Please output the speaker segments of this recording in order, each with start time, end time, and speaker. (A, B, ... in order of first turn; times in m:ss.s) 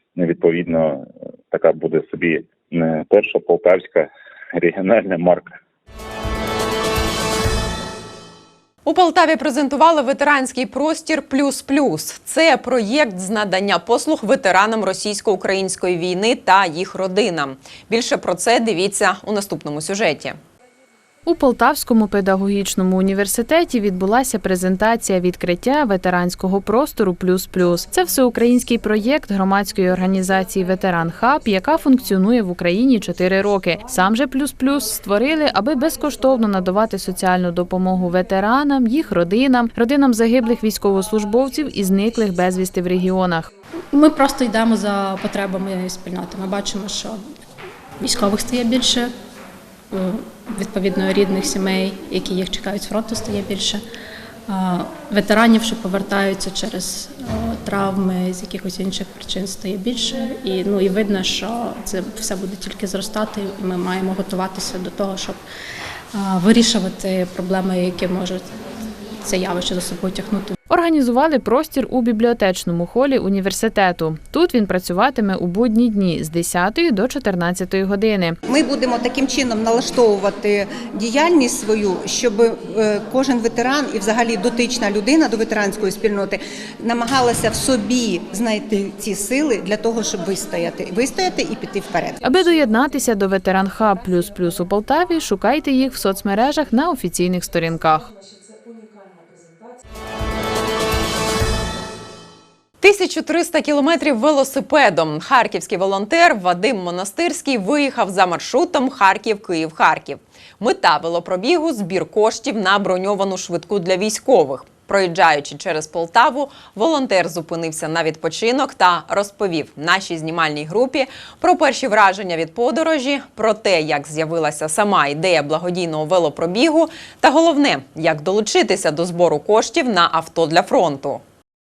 0:00.2-0:05.6 A
0:08.8-0:20.4 B
0:21.3-0:43.5 C
0:43.9-0:47.2 D
0:48.0-0:49.1 D
0:50.6-0:53.8 D
0:54.5-1:05.4 D
1:06.2-1:08.4 D
1:09.3-1:10.5 D
1:10.7-1:18.4 C
1:18.5-1:32.2 E
1:32.2-1:38.1 C
1:42.8-2:11.2 B